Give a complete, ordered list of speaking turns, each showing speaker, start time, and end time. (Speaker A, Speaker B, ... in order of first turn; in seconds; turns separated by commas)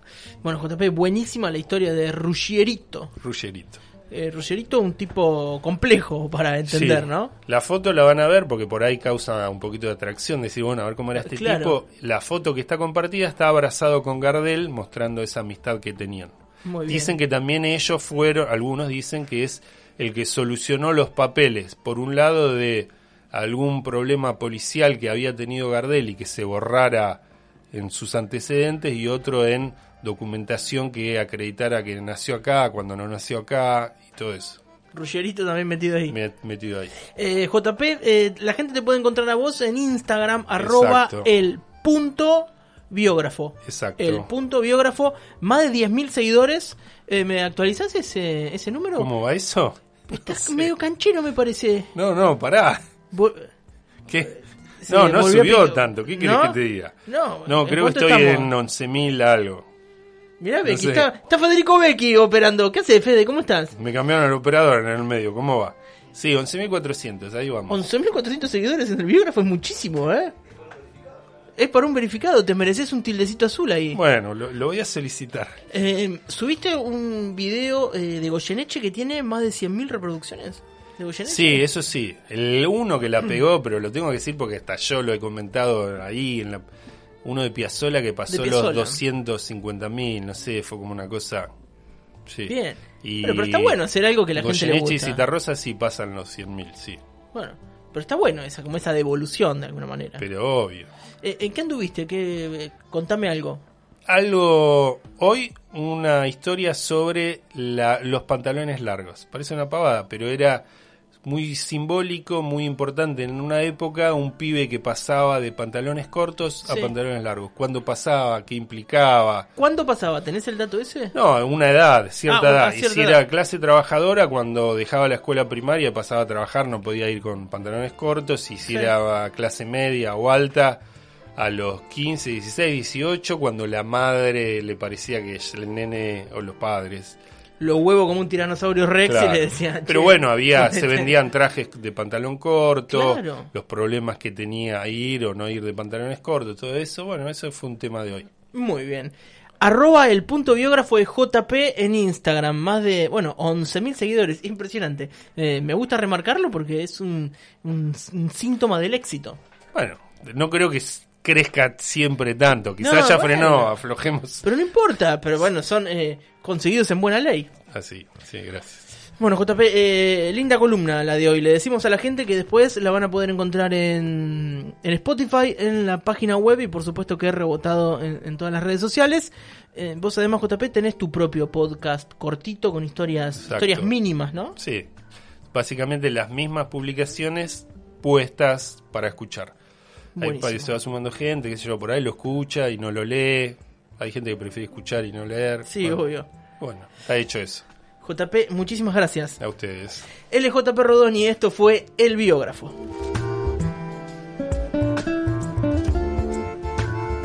Speaker A: 0.4-3.1, Speaker B: 3.2-3.8, Speaker A: 4.1-7.3, Speaker B: 6.7-16.3, Speaker A: 11.2-11.8, Speaker A: 16.6-17.1, Speaker B: 16.9-27.2, Speaker B: 27.7-34.6, Speaker A: 34.9-36.1, Speaker B: 36.1-37.0, Speaker A: 37.0-49.1, Speaker B: 40.6-41.3, Speaker B: 43.6-44.3, Speaker B: 49.0-50.7, Speaker A: 50.1-51.9, Speaker B: 51.9-52.8, Speaker A: 53.1-53.5, Speaker B: 54.1-54.4, Speaker A: 54.2-58.5, Speaker B: 54.9-59.7, Speaker A: 60.4-63.7, Speaker B: 60.6-61.1, Speaker B: 63.7-67.8, Speaker A: 67.7-70.3, Speaker A: 71.6-74.0, Speaker B: 73.9-75.6, Speaker A: 75.7-81.6, Speaker B: 81.3-86.6, Speaker B: 87.2-91.5, Speaker A: 88.3-89.0, Speaker B: 92.3-93.8, Speaker A: 92.5-95.2, Speaker B: 94.3-97.0, Speaker A: 97.3-100.2, Speaker B: 100.2-100.9, Speaker A: 101.2-103.6, Speaker B: 104.1-110.7, Speaker B: 111.2-119.5, Speaker A: 116.7-116.9, Speaker A: 119.6-121.1, Speaker B: 121.1-130.8, Speaker A: 122.3-123.2, Speaker B: 131.4-137.2, Speaker A: 137.6-141.1, Speaker B: 139.1-148.3, Speaker A: 142.9-143.5, Speaker A: 148.5-159.4, Speaker B: 159.7-164.5, Speaker A: 162.8-163.7, Speaker A: 164.4-167.5, Speaker B: 167.7-168.9, Speaker A: 169.2-184.6, Speaker B: 183.4-183.9, Speaker B: 184.6-184.9, Speaker B: 185.5-189.5, Speaker A: 190.2-190.7, Speaker B: 190.2-196.0, Speaker A: 195.7-196.3, Speaker B: 196.6-197.7, Speaker A: 198.0-199.4, Speaker B: 199.4-200.1, Speaker A: 200.2-202.8